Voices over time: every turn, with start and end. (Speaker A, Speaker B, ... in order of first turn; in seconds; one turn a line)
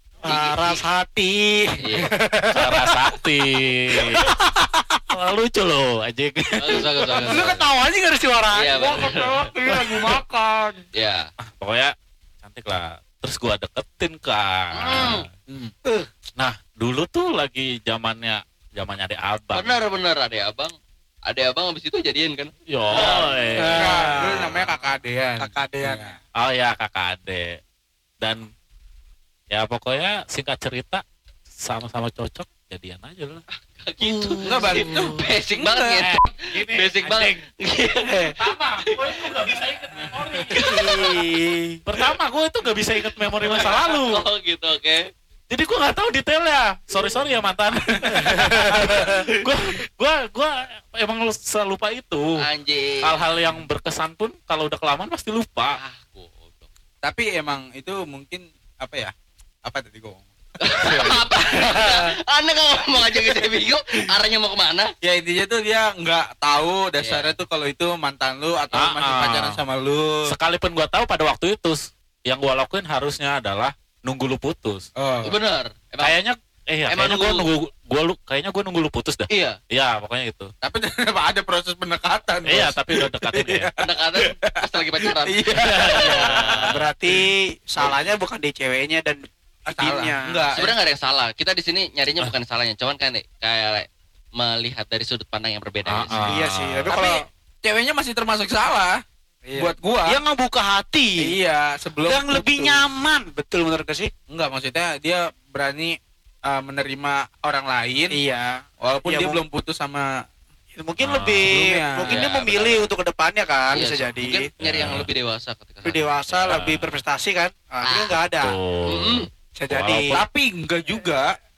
Speaker A: 0.2-0.8
Speaker B: 0.2-3.1
Speaker A: 1.8-2.1
Speaker C: 2.5-4.3
Speaker B: 4.0-5.0
Speaker C: 5.1-7.6
Speaker A: 6.6-7.6
Speaker B: 7.3-10.8
Speaker A: 8.5-9.5
Speaker C: 9.7-10.2
Speaker A: 10.9-11.3
Speaker C: 11.5-15.2
Speaker A: 14.8-15.2
Speaker C: 16.4-19.8
Speaker A: 19.5-23.6
Speaker C: 22.7-24.1
Speaker B: 23.6-24.7
Speaker D: 23.8-26.2
Speaker B: 25.4-26.2
Speaker C: 26.4-27.6
Speaker C: 29.5-31.0
Speaker C: 31.6-33.5
Speaker A: 33.7-39.6
Speaker B: 34.0-35.2
Speaker D: 34.5-36.1
Speaker C: 36.0-37.4
Speaker B: 38.1-38.3
Speaker C: 38.4-41.0
Speaker A: 40.5-41.2
Speaker B: 40.6-41.8
Speaker C: 41.9-44.3
Speaker A: 43.4-45.1
Speaker C: 45.5-52.3
Speaker D: 48.0-48.7
Speaker A: 49.0-49.3
Speaker A: 52.4-53.2
Speaker C: 53.0-55.8
Speaker A: 55.7-56.7
Speaker D: 57.0-59.1
Speaker D: 59.6-61.2
Speaker A: 60.6-64.9
Speaker B: 61.6-62.1
Speaker D: 65.0-70.3
Speaker A: 67.0-67.3
Speaker C: 68.8-69.6
Speaker C: 70.2-74.9
Speaker D: 75.0-75.3
Speaker A: 75.2-76.2
Speaker C: 76.0-80.5
Speaker A: 76.9-77.5
Speaker A: 79.3-79.6
Speaker D: 80.6-87.2
Speaker C: 82.5-83.7
Speaker A: 83.8-86.6
Speaker C: 85.7-86.6
Speaker B: 86.0-90.5
Speaker D: 89.7-90.7
Speaker A: 90.5-96.1
Speaker C: 95.9-97.0
Speaker D: 96.1-96.4
Speaker B: 96.2-97.2
Speaker D: 96.9-99.0
Speaker B: 99.5-101.3
Speaker D: 99.6-100.2
Speaker D: 101.2-102.8
Speaker B: 102.1-104.1
Speaker D: 104.3-108.2
Speaker B: 108.1-109.4
Speaker D: 108.8-110.1
Speaker B: 110.8-114.5
Speaker C: 111.0-111.5
Speaker D: 111.4-112.2
Speaker A: 112.1-112.9
Speaker A: 113.7-116.6
Speaker C: 114.6-115.1
Speaker B: 115.8-118.6
Speaker C: 116.5-116.9
Speaker A: 117.8-118.1
Speaker C: 118.4-120.1
Speaker A: 118.9-119.3
Speaker B: 119.6-120.2
Speaker D: 120.1-121.3